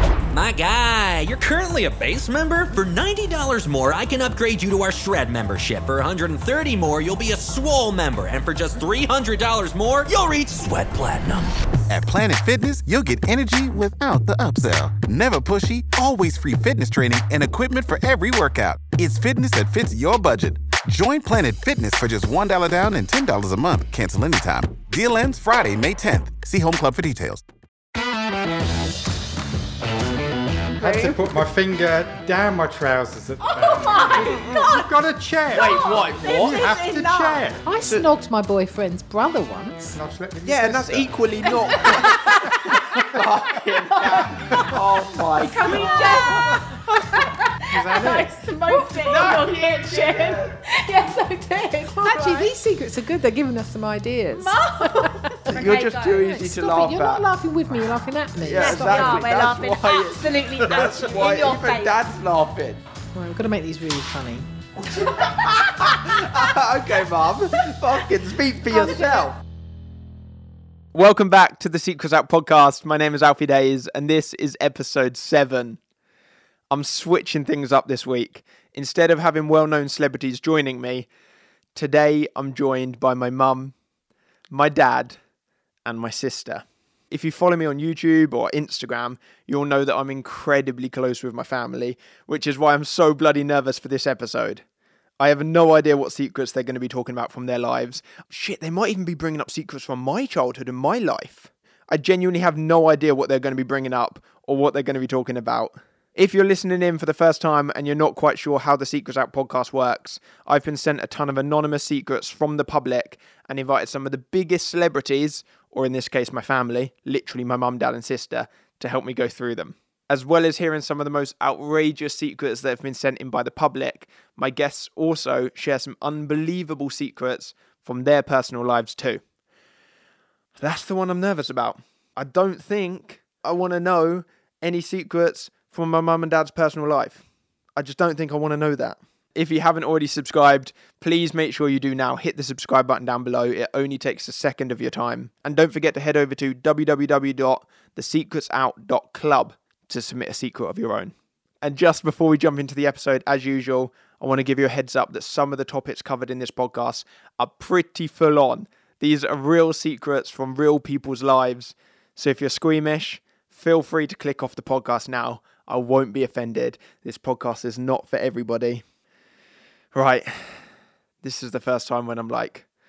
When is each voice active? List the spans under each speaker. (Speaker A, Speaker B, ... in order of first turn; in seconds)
Speaker A: 0.3-11.6
Speaker B: 11.9-27.4
Speaker C: 30.8-31.4, 34.1-34.7, 35.5-36.7, 40.5-46.6, 49.0-50.6, 55.5-57.3, 58.4-62.8, 64.8-69.4, 70.9-75.8, 76.7-81.1, 81.8-83.7, 84.5-85.2, 85.8-94.6, 95.2-129.2, 130.6-137.2, 137.8-168.8, 169.9-170.7, 171.2-172.7
Speaker D: 30.8-37.6, 39.9-43.2, 44.5-44.8, 47.7-48.3
Speaker E: 33.5-34.9, 35.5-37.5, 41.5-44.8, 45.6-52.5, 54.3-56.3, 58.6-62.0, 65.4-65.7, 68.7-69.3
Speaker F: 37.7-40.0, 45.4-46.3, 51.9-55.5, 56.2-59.4, 63.1-64.5